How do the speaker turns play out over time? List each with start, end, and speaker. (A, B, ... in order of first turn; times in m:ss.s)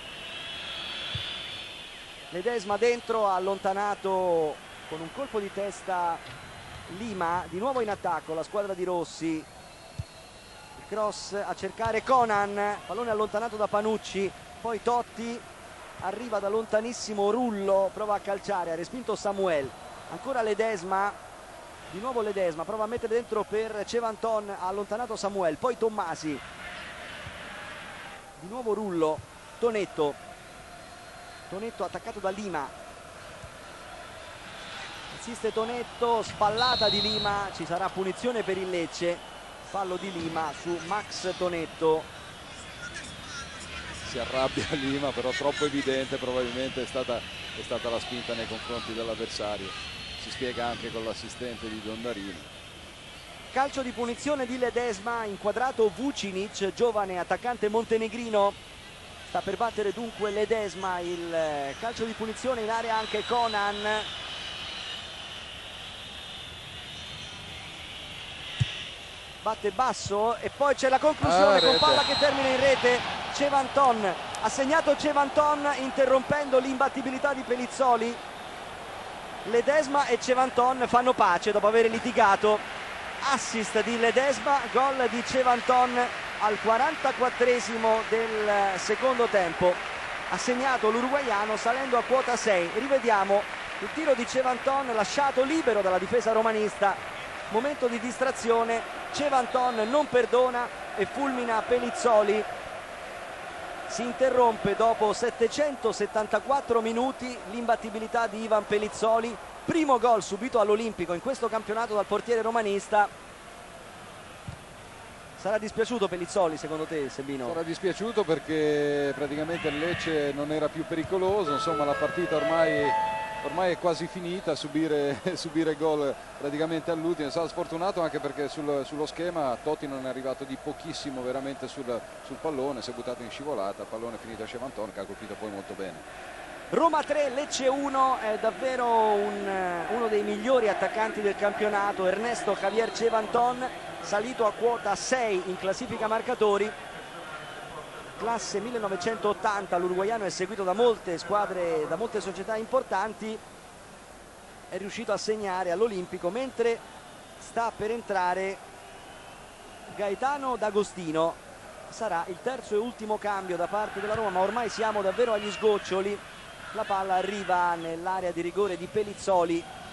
0:02.3-0:06.2 A
0:06.9-0:09.5 A
0:10.8-0:15.4 A
0:16.0-0:21.2 A
0:21.9-0:26.4 A
0:28.4-0:30.2 A
0:31.5-0:32.7 A
0:35.1-0:42.1 A
0:44.0-0:52.5 B
0:53.5-0:58.6 A
0:59.3-1:04.1 A
1:09.4-1:18.2 A
1:11.2-1:12.0 B
1:19.4-1:22.6 A
1:23.2-1:42.5 A
1:43.9-1:53.1 A
1:55.4-1:57.6 A
1:57.4-2:16.0 B
2:16.7-2:26.7 A
2:28.2-2:33.4 A
2:34.7-2:36.8 A
2:37.4-2:38.6 A
2:39.9-2:49.7 A